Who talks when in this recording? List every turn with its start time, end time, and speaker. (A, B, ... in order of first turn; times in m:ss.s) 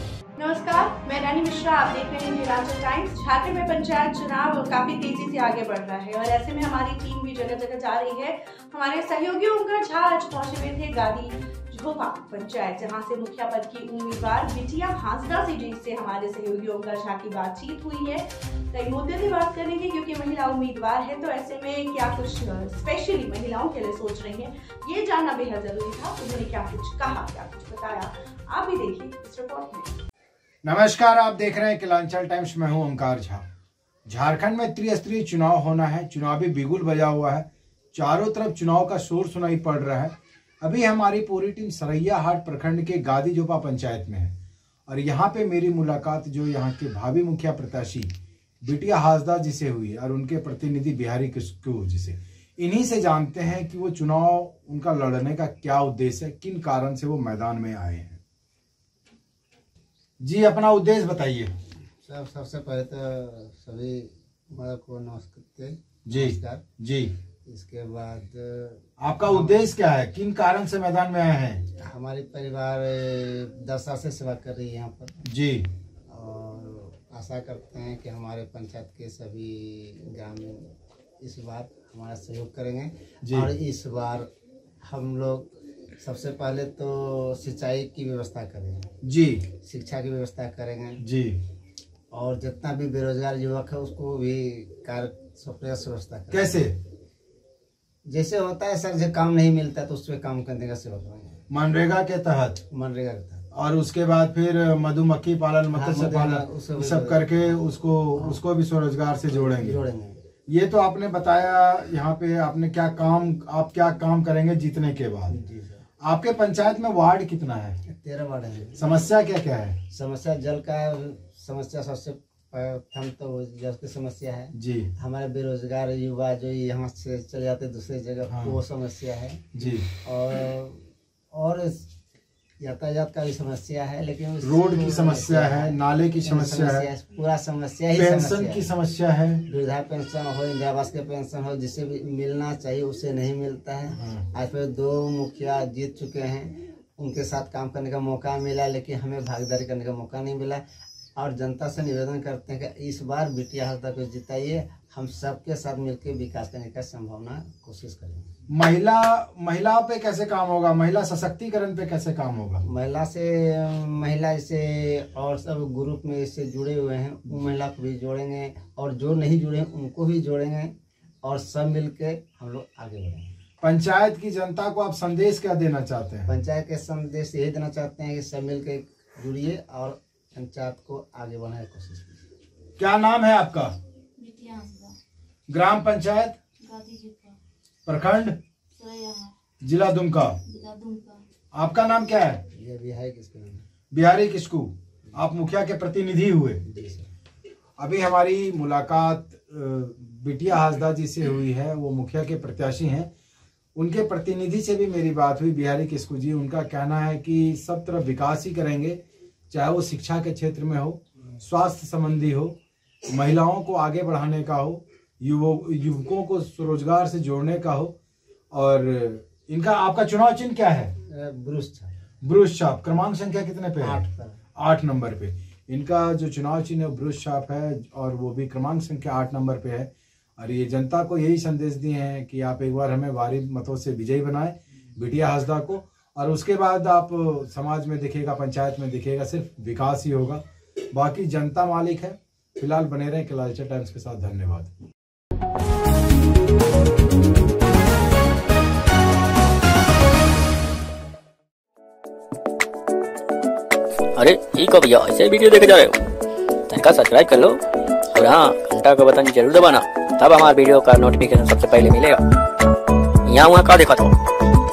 0:00.4-0:29.9 A
0:30.6-0:33.4 B
0:34.1-0:44.3 B
0:44.9-0:48.1 B
0:48.6-0:58.2 B
1:00.2-1:01.5 B
1:02.0-1:06.6 C
1:06.0-1:07.1 B
1:07.4-1:09.7 C
1:09.0-1:11.6 B
1:11.8-1:15.2 C
1:15.2-1:15.7 B
1:16.1-1:20.7 C
1:21.2-1:24.3 C
1:23.2-1:23.5 B
1:24.8-1:28.9 C
1:29.0-1:29.5 B
1:29.6-1:31.0 C
1:31.0-1:31.4 B
1:32.1-1:36.7 C
1:36.3-1:36.7 B
1:38.0-1:41.4 C
1:41.5-1:42.6 B
1:42.7-1:43.4 C
1:43.5-1:49.8 B
1:45.7-1:47.6 C
1:48.1-1:48.4 C
1:49.3-1:50.2 C
1:50.5-1:55.4 B
1:55.3-1:55.8 C
1:56.0-1:57.8 B
1:57.9-1:58.8 C
1:58.8-1:59.8 B
1:59.9-2:11.9 C
2:04.5-2:04.9 B
2:08.3-2:08.6 B
2:09.5-2:09.9 B
2:12.6-2:18.7 C
2:14.4-2:16.9 B
2:17.9-2:19.4 B
2:19.5-2:30.6 C
2:24.0-2:24.2 B
2:31.2-2:38.3 C
2:38.5-2:42.6 B
2:42.6-2:53.3 C
2:53.6-2:56.3 B
2:56.2-3:02.3 C
3:02.8-3:03.7 B
3:04.2-3:05.0 D
3:05.5-3:06.4 B
3:06.6-3:07.4 D
3:07.8-3:08.4 B
3:08.8-3:09.3 D
3:09.6-3:10.4 B
3:10.4-3:11.2 D
3:11.5-3:12.4 B
3:12.5-3:13.7 C
3:13.9-3:16.6 B
3:16.6-3:17.1 C
3:17.8-3:23.1 B
3:23.8-3:32.6 B
3:33.1-3:37.9 B
3:38.5-3:40.9 B
3:41.0-3:41.9 C
3:42.2-3:44.0 B
3:43.8-3:44.4 C
3:44.6-4:00.4 B
4:00.9-4:04.7 B
4:14.2-4:16.0 E
4:16.7-4:17.6 E
4:18.1-4:22.2 E
4:23.3-4:24.2 E